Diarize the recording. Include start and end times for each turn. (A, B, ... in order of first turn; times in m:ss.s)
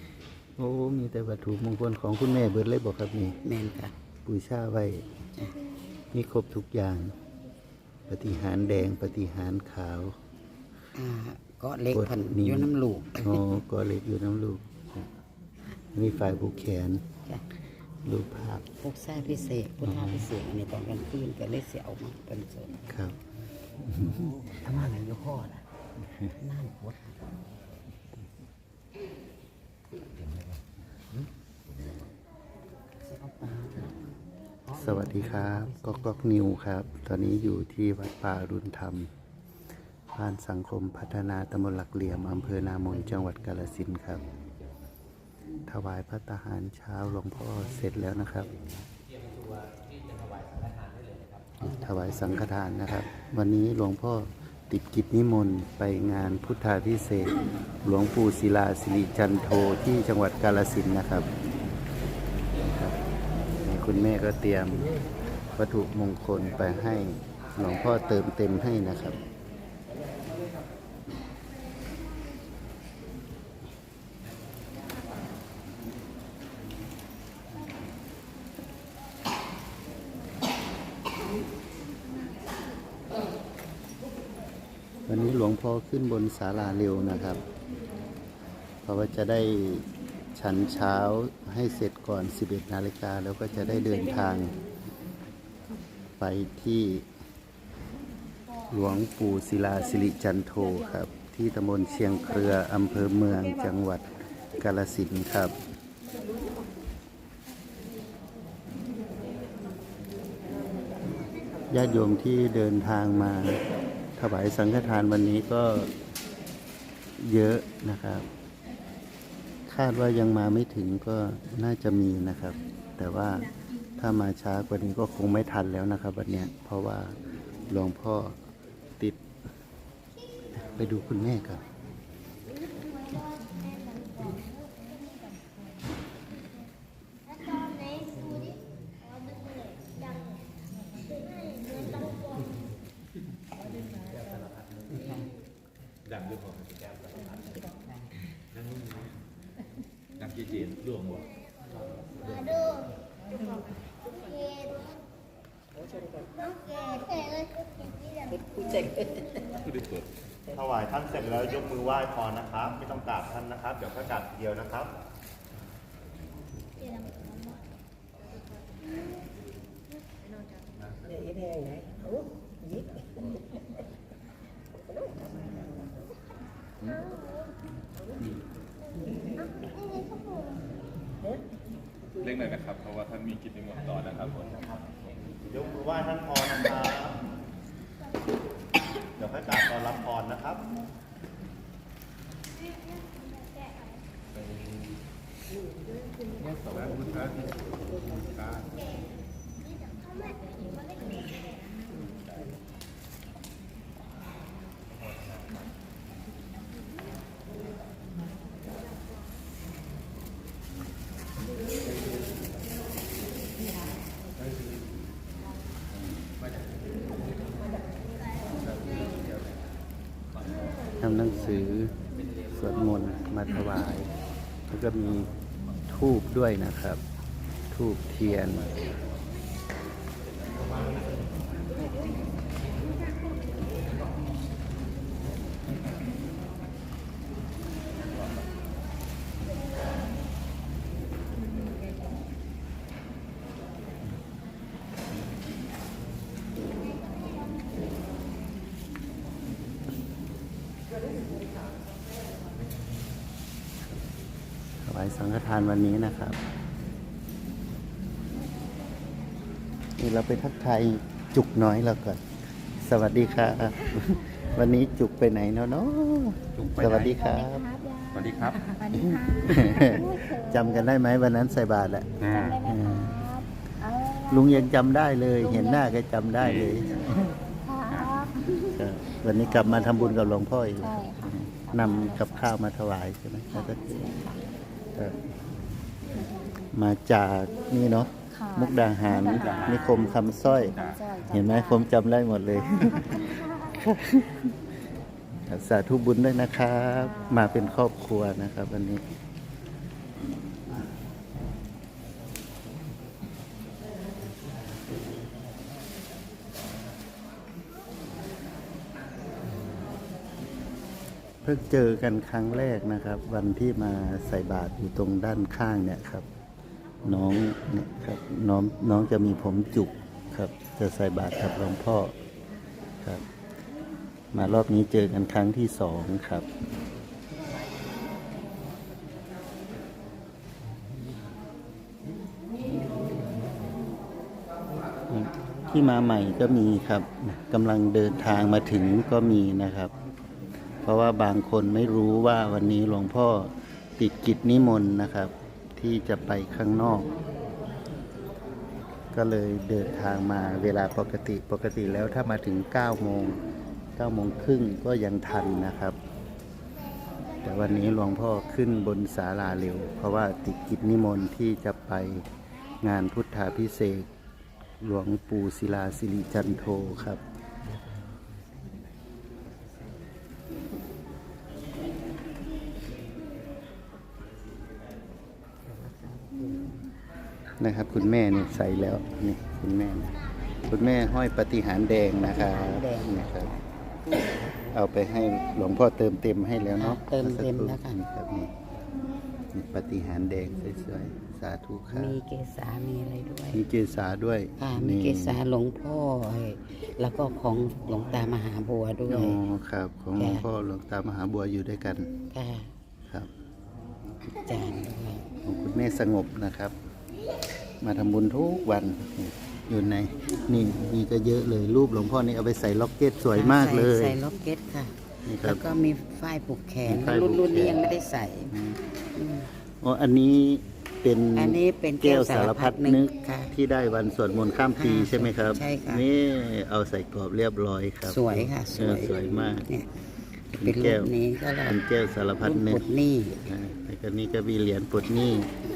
0:00.6-0:03.4 A
0:03.4-0:03.9 B
0:04.3-0:05.1 A
0:06.1-0:07.2 A
0:08.1-0:10.1 A
0:11.0-0:13.4 B
0:11.9-0:15.1 A
0:16.0-0:17.0 A
0:18.0-0:18.7 A
0:18.8-0:22.8 B
0:19.8-0:20.3 A
0:22.9-0:23.2 A
0:23.9-0:24.2 A
0:24.0-0:25.6 B
0:26.4-0:27.2 B
0:33.1-0:34.0 B
0:34.6-0:36.3 B
0:34.8-0:39.1 A
0:40.1-0:44.2 A
0:45.7-0:48.5 A
0:51.6-1:01.3 A
1:02.6-1:03.0 A
1:03.6-1:04.9 A
1:05.6-1:09.2 A
1:25.1-1:27.4 A
1:28.8-1:34.5 A
1:36.2-1:37.1 A
1:38.7-1:45.5 A
1:51.7-1:53.6 A
1:54.2-1:55.9 A
1:57.2-1:58.2 A
1:59.7-2:03.5 A
2:04.0-2:07.2 A
2:07.7-2:08.4 A
2:10.6-2:11.6 A
2:27.6-2:28.1 B
2:30.2-2:30.8 C
2:39.7-2:40.1 C
2:40.6-2:44.9 D
3:02.3-3:04.4 C
3:05.5-3:07.2 D
3:09.2-3:10.6 D
3:41.0-3:41.9 A
3:42.5-3:44.1 A
3:44.7-3:45.3 A
3:45.9-3:47.0 A
3:47.7-3:48.7 A
4:14.8-4:16.4 A
4:20.0-4:22.2 A
4:22.8-4:27.8 A
4:26.6-4:27.2 C
4:27.8-4:28.1 E
4:28.1-4:28.7 C
4:29.0-4:30.4 E
4:29.1-4:33.3 A
4:32.2-4:32.6 C
4:33.4-4:34.3 E
4:34.3-4:37.4 A
4:36.4-4:36.7 C
4:37.9-4:38.2 C
4:38.7-4:44.1 A
4:45.0-4:45.2 A
4:46.7-4:54.5 A
4:49.4-4:50.2 C
4:50.7-4:51.1 C
4:51.1-4:51.4 E
4:55.5-4:59.0 A
5:11.4-5:16.3 A
5:17.0-5:22.1 A
5:24.3-5:26.5 A
5:35.1-5:39.9 A
5:40.8-5:47.1 A
5:49.1-5:53.4 A
5:54.0-5:56.0 A
5:57.4-6:02.2 A
6:02.8-6:04.1 A
6:04.8-6:07.2 A
6:08.0-6:08.8 B
6:15.7-6:16.8 B
6:17.6-6:20.2 A
6:20.7-6:23.5 A
6:22.2-6:24.6 B
6:24.7-6:28.5 A
6:26.8-6:28.0 B
6:29.5-6:32.2 A
6:31.9-6:33.6 B
6:33.5-6:35.4 A
6:34.6-6:39.4 B
6:39.1-6:42.1 A
6:40.2-6:40.5 B
6:42.3-6:42.7 B
6:44.4-6:45.2 B
6:45.4-6:46.8 A
6:47.8-6:54.2 A
6:53.3-6:58.6 B
6:55.3-6:55.6 A
6:56.9-6:58.0 A
6:58.5-6:58.8 A
6:59.2-6:59.5 B
6:59.8-7:09.7 A
7:01.4-7:03.5 B
7:04.8-7:06.0 B
7:08.1-7:09.9 B
7:10.5-7:11.1 A
7:10.6-7:11.8 B
7:11.6-7:12.8 A
7:12.4-7:13.4 B
7:13.4-7:15.5 A